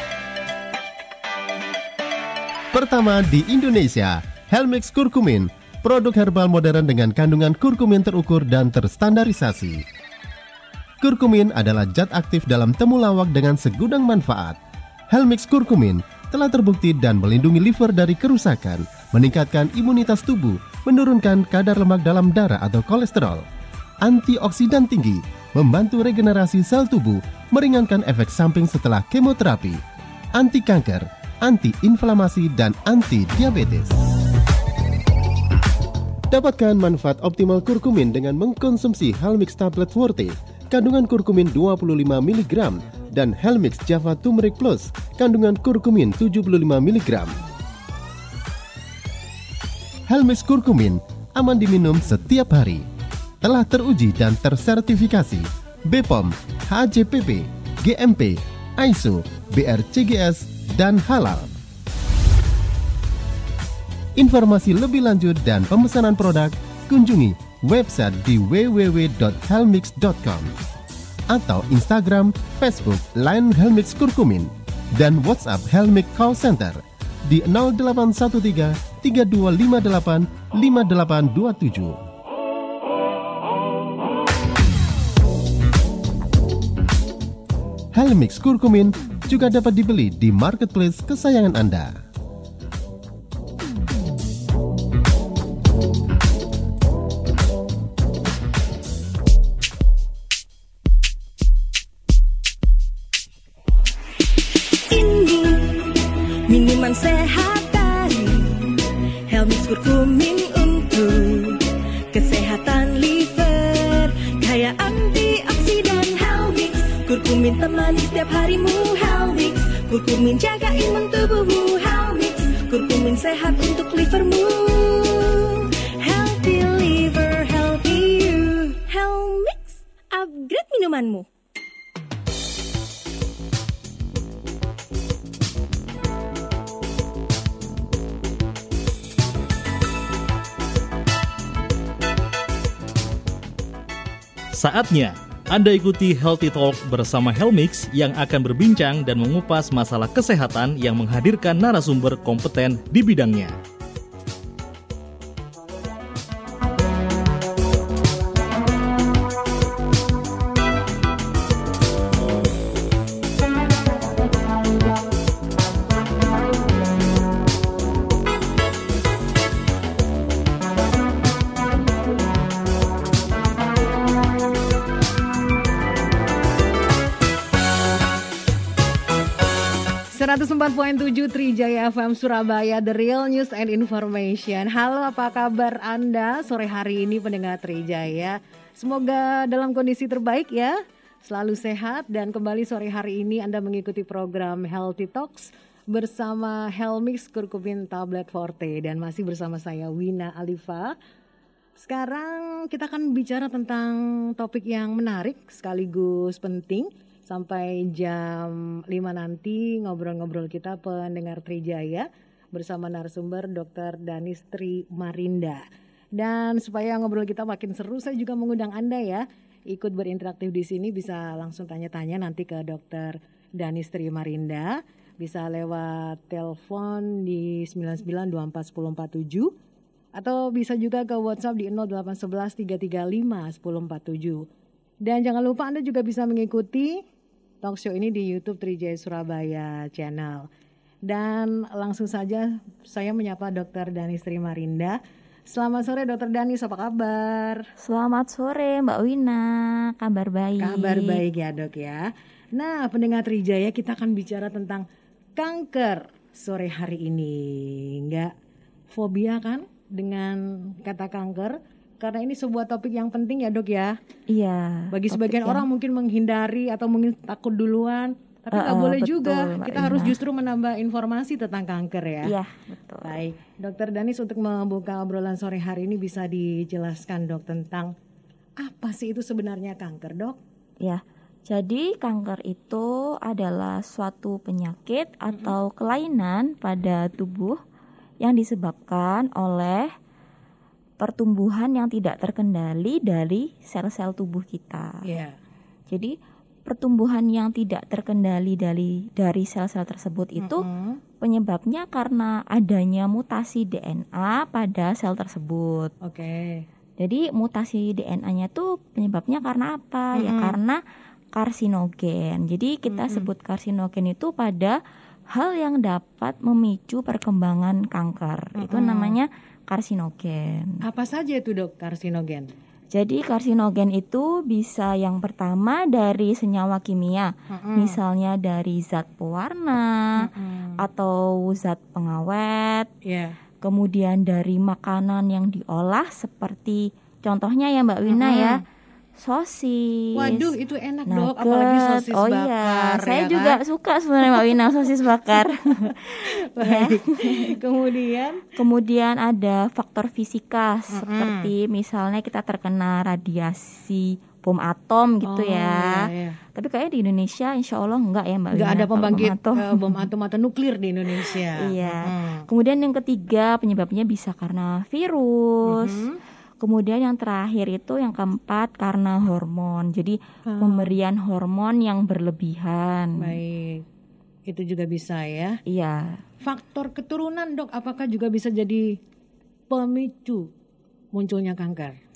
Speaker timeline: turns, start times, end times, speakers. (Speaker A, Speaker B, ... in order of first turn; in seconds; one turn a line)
Speaker A: 2.7-9.8
Speaker A: 11.0-14.6
Speaker A: 15.1-23.4
Speaker A: 24.0-29.8
Speaker A: 30.4-34.0
Speaker A: 36.3-47.4
Speaker A: 50.1-52.9
Speaker A: 53.4-61.5
Speaker A: 64.2-70.5
Speaker A: 71.3-82.0
Speaker A: 87.9-92.0
Speaker B: 104.9-105.9
Speaker B: 106.5-108.7
Speaker B: 109.3-131.3
Speaker C: 144.5-153.6
Speaker D: 180.1-200.9
Speaker D: 201.8-215.6
Speaker D: 216.2-229.5
Speaker D: 230.2-234.4
Speaker D: 235.0-237.0
Speaker D: 237.6-240.5
Speaker D: 241.1-245.0
Speaker D: 245.5-247.6
Speaker E: 247.8-251.2
Speaker D: 250.6-254.8
Speaker D: 255.4-258.3
Speaker D: 258.9-264.0
Speaker E: 264.3-265.6
Speaker D: 264.9-272.3
Speaker E: 268.5-270.2
Speaker E: 272.2-273.2
Speaker D: 273.1-277.9
Speaker D: 278.6-280.4
Speaker E: 280.8-287.6
Speaker E: 288.2-289.9
Speaker E: 291.0-295.0
Speaker D: 295.1-295.4
Speaker E: 295.9-296.2
Speaker E: 296.7-300.6
Speaker D: 300.4-301.0
Speaker E: 301.2-305.9
Speaker D: 306.0-306.7
Speaker E: 307.0-310.8
Speaker D: 310.2-310.6
Speaker E: 311.4-314.8
Speaker D: 312.9-313.3
Speaker E: 315.3-320.8
Speaker D: 318.6-319.2
Speaker D: 320.9-322.5
Speaker E: 322.9-330.1
Speaker D: 327.5-328.0
Speaker D: 330.2-330.7
Speaker E: 330.8-332.9
Speaker D: 333.1-333.4
Speaker E: 333.6-338.6
Speaker D: 338.1-338.6
Speaker E: 339.2-340.5
Speaker D: 340.2-343.6
Speaker E: 341.1-347.4
Speaker D: 345.4-345.9
Speaker D: 346.5-348.4
Speaker E: 348.6-355.9
Speaker D: 350.9-351.5
Speaker D: 355.3-356.4
Speaker E: 356.6-360.1
Speaker D: 358.6-362.5
Speaker E: 361.2-366.0
Speaker D: 365.7-366.2
Speaker E: 366.6-373.3
Speaker D: 370.5-370.9
Speaker D: 373.2-373.8
Speaker D: 374.5-375.6
Speaker E: 375.7-376.2
Speaker D: 376.4-379.0
Speaker D: 379.7-380.5
Speaker D: 381.1-382.0